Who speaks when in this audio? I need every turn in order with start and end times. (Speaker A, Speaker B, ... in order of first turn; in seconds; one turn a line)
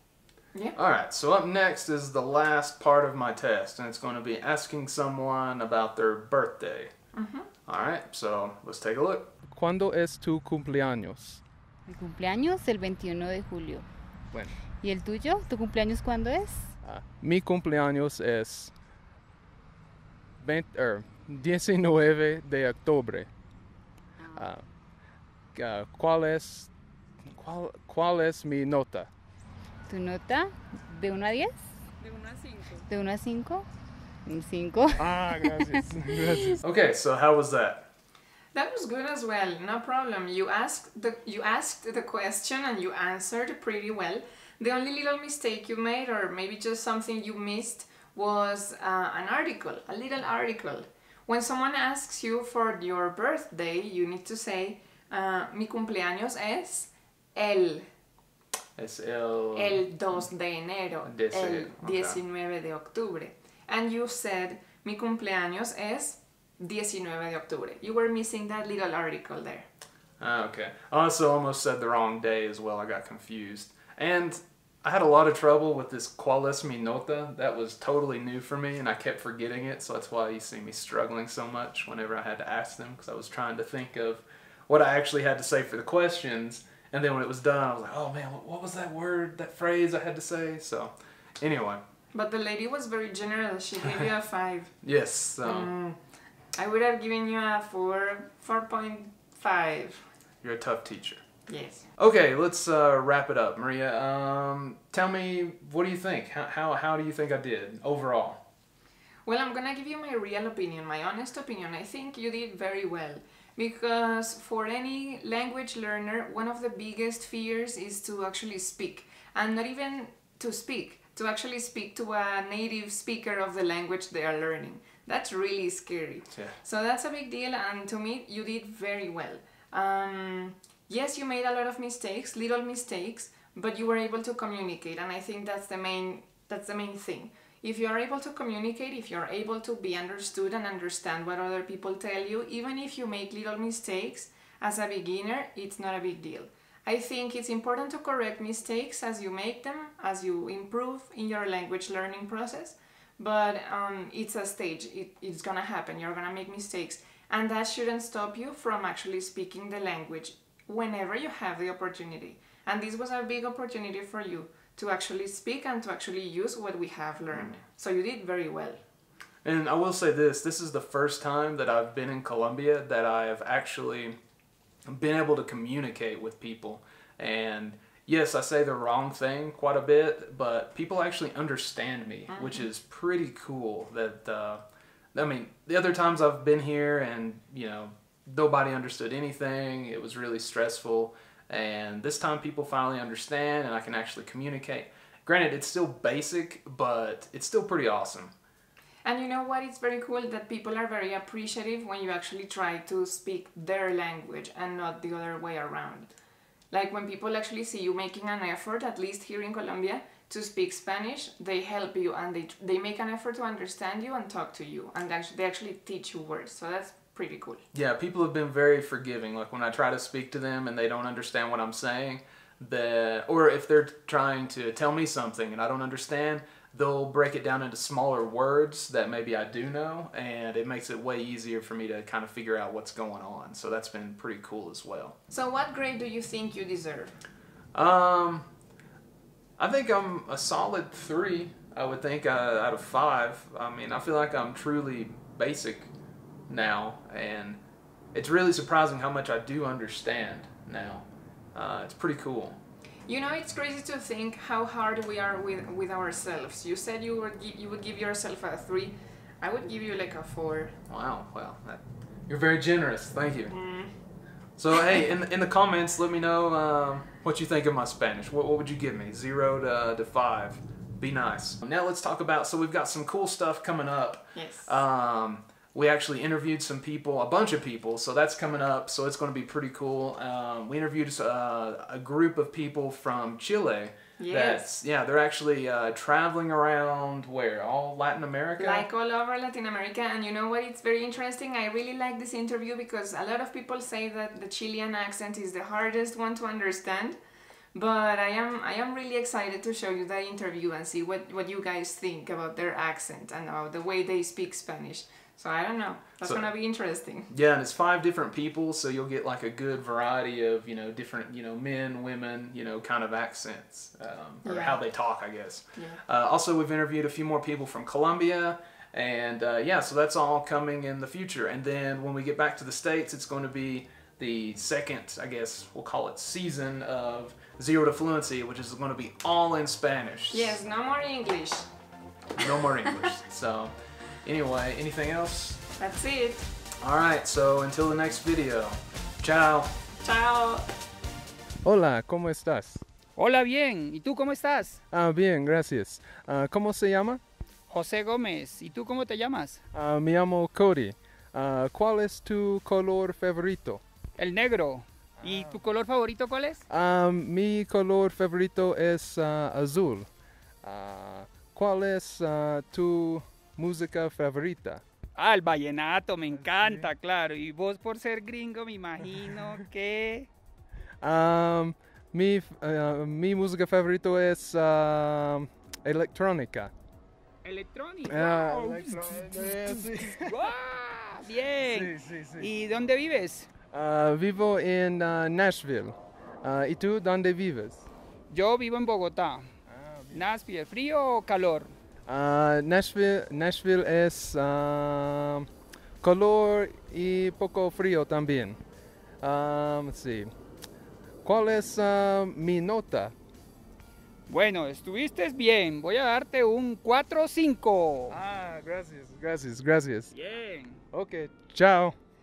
Speaker A: 0.8-6.9
Speaker B: 7.1-7.5
Speaker A: 7.6-9.4
Speaker C: 9.5-11.4
Speaker D: 11.9-13.9
Speaker C: 14.3-14.6
Speaker D: 14.8-16.7
Speaker C: 16.8-18.7
Speaker C: 20.4-23.3
Speaker C: 24.3-24.7
Speaker C: 25.5-26.7
Speaker C: 27.2-29.1
Speaker D: 29.9-31.7
Speaker D: 32.6-33.6
Speaker D: 34.2-36.5
Speaker C: 35.0-36.6
Speaker A: 36.6-37.9
Speaker B: 38.5-57.9
Speaker A: 58.8-60.2
Speaker B: 59.5-69.7
Speaker A: 61.0-62.2
Speaker A: 70.2-91.8
Speaker B: 92.1-94.8
Speaker A: 94.8-95.7
Speaker B: 95.4-96.0
Speaker B: 96.5-100.1
Speaker A: 100.4-101.2
Speaker B: 101.5-101.9
Speaker A: 102.0-108.4
Speaker B: 109.2-168.8
Speaker A: 126.3-126.6
Speaker A: 167.3-167.6
Speaker A: 169.4-174.2
Speaker A: 174.8-184.6
Speaker B: 182.3-182.7
Speaker A: 185.1-198.3
Speaker B: 199.0-206.1
Speaker B: 206.7-217.6
Speaker A: 217.7-235.2
Speaker B: 235.3-237.2
Speaker A: 237.7-238.5
Speaker A: 239.6-245.9
Speaker A: 246.5-247.6
Speaker A: 248.1-252.6
Speaker B: 253.1-260.8
Speaker A: 260.9-263.5
Speaker B: 263.5-263.9
Speaker A: 264.6-288.9
Speaker B: 274.3-274.7
Speaker B: 284.2-284.6
Speaker B: 288.6-297.2
Speaker B: 297.7-307.3
Speaker A: 306.2-306.5
Speaker A: 307.3-330.6
Speaker B: 314.4-314.8
Speaker B: 315.7-316.0
Speaker B: 330.3-331.7
Speaker A: 332.4-335.6
Speaker B: 335.8-336.4
Speaker A: 336.8-339.8
Speaker B: 340.0-340.7
Speaker C: 341.6-342.8
Speaker E: 343.2-344.8
Speaker C: 344.9-347.2
Speaker E: 347.7-349.6
Speaker C: 349.7-353.8
Speaker E: 354.2-356.6
Speaker C: 355.2-355.6
Speaker C: 356.7-360.1
Speaker C: 360.6-364.8
Speaker E: 365.2-370.3
Speaker C: 366.3-366.9
Speaker C: 371.0-376.7
Speaker E: 377.4-383.5
Speaker C: 378.1-380.3
Speaker C: 381.6-382.5
Speaker C: 383.7-387.9
Speaker E: 388.3-389.5
Speaker C: 389.7-390.2
Speaker E: 390.1-391.7
Speaker C: 392.1-395.5
Speaker C: 396.0-398.6
Speaker C: 399.2-400.3
Speaker C: 401.2-403.1
Speaker E: 404.3-408.2
Speaker C: 408.1-410.1
Speaker E: 410.1-410.8
Speaker C: 410.9-411.9